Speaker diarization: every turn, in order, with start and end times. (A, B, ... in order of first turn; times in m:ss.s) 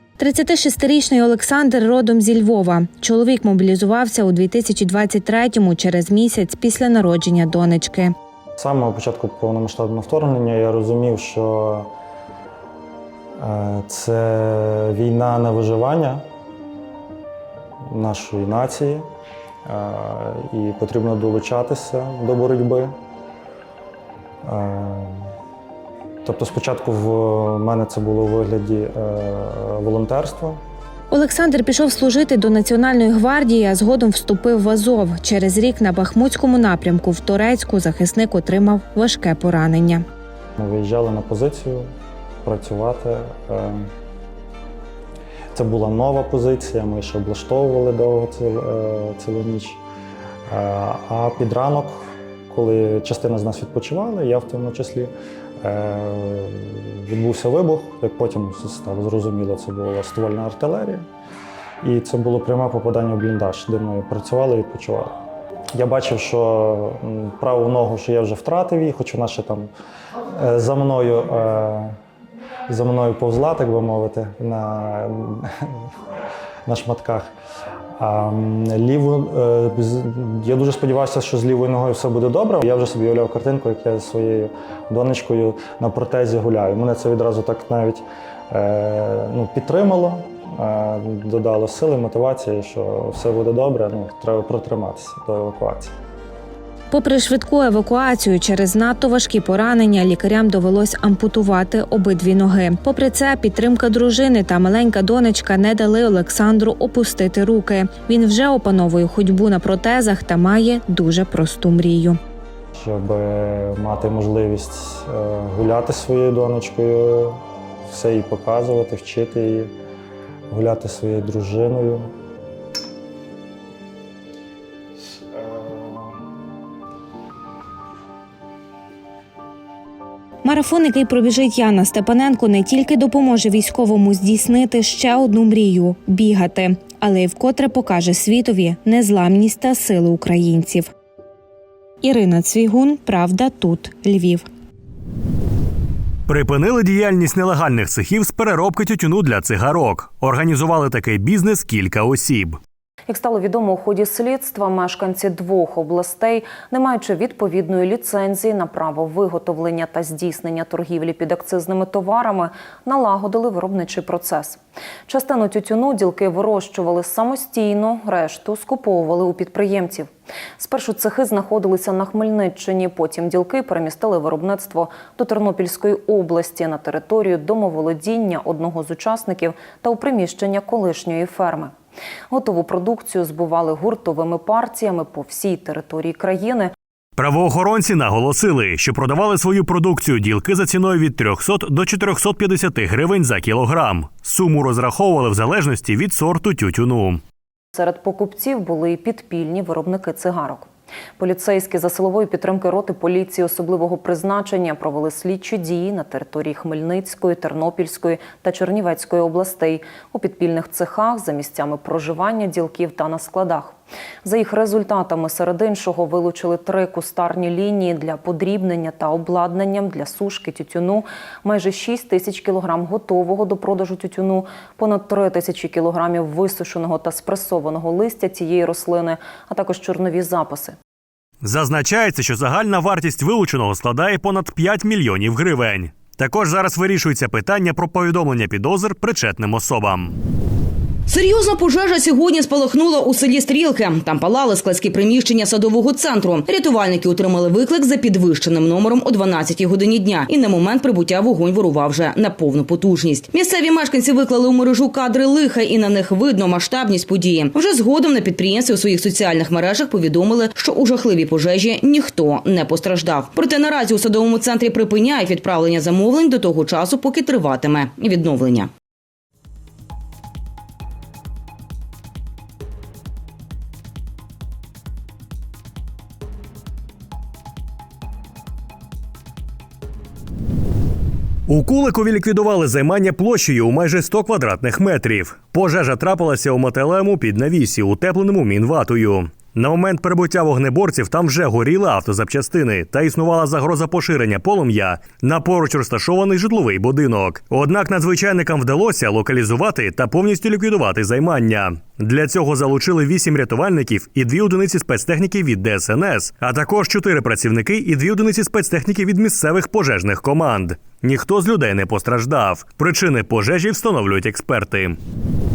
0:00.2-0:08.1 A
0:08.6-0:11.9 B
0:13.4-0:16.2 B
0:17.9-0:19.1 B
0:19.7-0:22.9 B
0:24.4-0:25.2 B
0:26.2-0:30.6 B
0:31.1-0:40.0 A
0:40.6-0:41.9 B
0:42.4-0:43.9 B
0:45.5-0:49.8 B
0:50.5-1:01.1 B
1:01.8-1:05.2 B
1:05.8-1:09.7 B
1:10.4-1:12.0 B
1:12.7-1:15.8 B
1:16.7-1:17.3 B
1:18.0-1:35.9 B
1:36.9-1:52.2 A
1:52.8-1:59.7 B
2:00.5-2:02.1 B
2:05.3-2:06.2 B
2:10.4-2:20.9 A
2:22.0-2:24.5 A
2:26.3-2:32.6 C
2:33.1-3:01.7 D
3:02.3-3:06.7 D
3:07.2-3:17.2 C
3:17.8-3:20.7 D
3:21.2-3:50.8 D
3:51.4-4:00.2 C
4:01.1-4:28.7 E
4:41.5-5:15.0 C